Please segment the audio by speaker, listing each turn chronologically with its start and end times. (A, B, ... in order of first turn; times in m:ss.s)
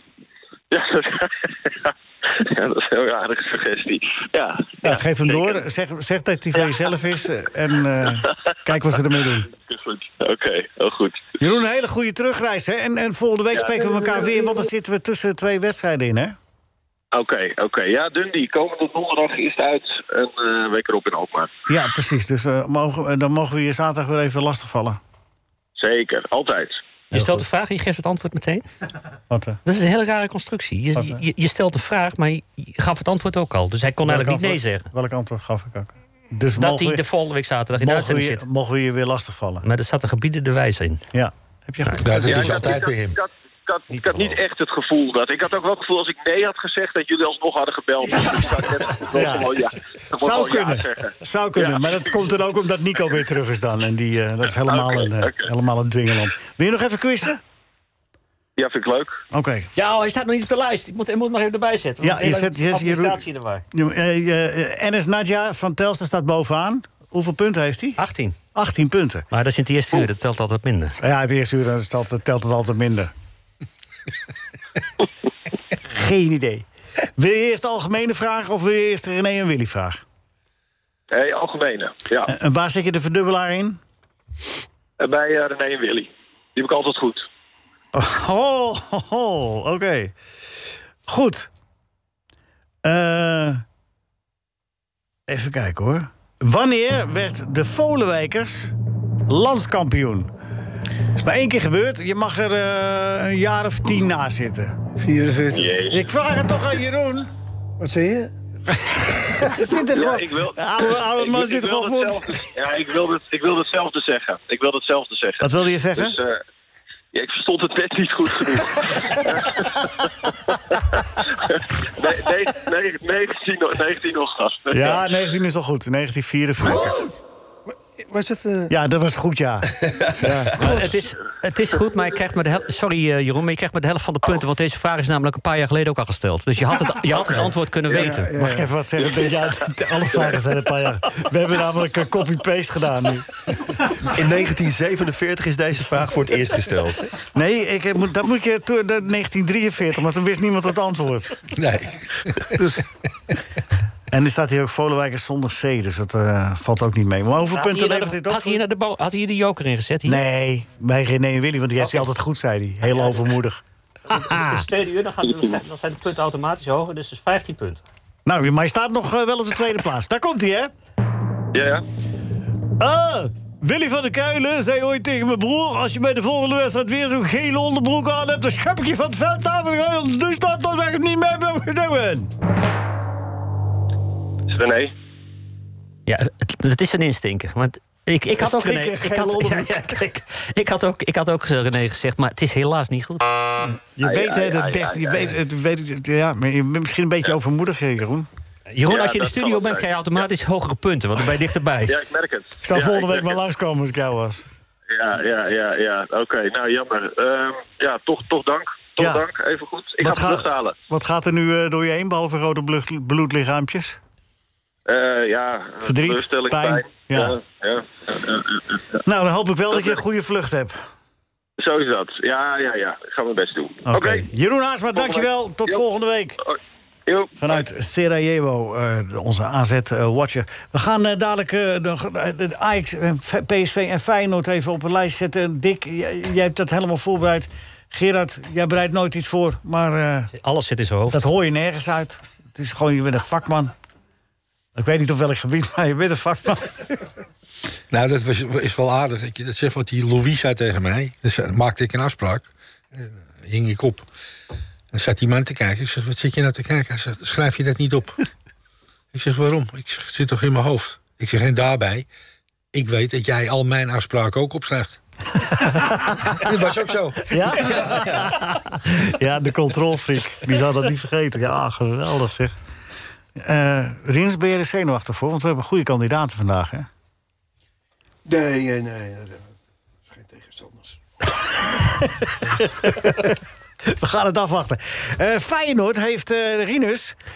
0:00.7-0:05.6 A
0:04.8-0:09.5 B
0:06.6-0:07.0 A
0:08.0-0:08.3 A
0:08.9-0:11.3 A
0:11.4-0:16.4 B
0:13.5-0:14.7 A
0:17.1-0:21.5 A
0:21.7-0:25.0 B
0:25.8-0:26.8 A
0:27.1-0:28.6 C
0:27.1-0:27.4 B
0:29.3-0:29.6 B
0:29.6-0:34.9 C
0:31.0-0:31.2 B
0:34.0-0:37.0 B
0:36.6-0:38.4 C
0:37.8-0:39.7 B
0:39.6-0:41.0 C
0:41.1-0:42.7 B
0:42.0-0:43.2 D
0:42.2-0:52.3 A
0:43.9-0:44.4 B
0:49.1-0:49.6 B
0:50.2-0:57.4 B
0:54.6-0:55.5 A
0:58.6-0:59.2 A
0:59.3-0:59.7 B
0:59.8-1:03.6 C
1:02.0-1:03.2 B
1:03.7-1:08.0 B
1:08.0-1:08.4 C
1:08.6-1:09.3 B
1:09.3-1:11.0 C
1:11.0-1:13.1 B
1:15.9-1:16.7 B
1:17.2-1:20.0 B
1:21.1-1:22.3 A
1:22.3-1:23.8 B
1:25.0-1:27.3 A
1:27.9-1:30.1 B
1:31.1-1:31.5 B
1:32.8-1:33.6 B
1:35.3-1:38.7 B
1:39.3-1:40.3 B
1:41.2-1:44.8 B
1:45.0-1:45.8 E
1:45.5-1:46.0 A
1:45.9-1:47.3 B
1:47.8-1:48.3 E
1:48.7-1:52.4 B
1:49.8-1:56.4 A
1:55.4-1:56.2 B
1:57.1-2:05.0 A
2:04.7-2:07.0 B
2:08.0-2:08.7 E
2:08.7-2:10.8 B
2:10.5-2:18.3 C
2:17.9-2:18.7 E
2:18.1-2:23.3 B
2:24.0-2:27.1 F
2:27.3-2:31.4 B
2:31.6-2:32.6 D
2:34.1-2:38.6 B
2:37.5-2:40.2 C
2:40.1-2:44.6 B
2:41.8-2:42.1 C
2:42.9-2:43.2 C
2:44.1-2:47.8 C
2:45.2-2:45.6 A
2:48.3-2:50.7 B
2:51.5-2:51.8 A
2:52.8-3:02.3 B
3:04.5-3:04.9 A
3:06.1-3:13.2 C
3:08.4-3:10.0 B
3:13.8-3:18.3 B
3:14.0-3:15.4 A
3:18.7-3:22.0 C
3:18.9-3:20.3 A
3:21.9-3:23.4 A
3:22.6-3:24.5 B
3:24.9-3:30.8 A
3:29.0-3:29.2 B
3:30.0-3:34.0 B
3:34.9-3:39.0 A
3:35.8-3:37.4 B
3:39.1-3:40.8 B
3:41.6-3:44.3 A
3:43.9-3:46.4 B
3:44.9-3:45.8 A
3:47.1-3:47.6 A
3:47.4-4:00.3 B
4:00.4-4:01.2 C
4:01.1-4:03.7 B
4:04.8-4:07.0 B
4:07.9-4:14.1 D
4:14.9-4:18.2 D
4:19.1-4:22.1 D
4:22.7-4:25.0 D
4:25.5-4:26.4 B
4:26.3-4:28.3 D
4:27.3-4:32.5 B
4:33.4-4:36.9 B
4:38.3-4:39.5 E
4:40.1-4:41.0 E
4:42.8-4:43.2 B
4:43.9-4:47.2 B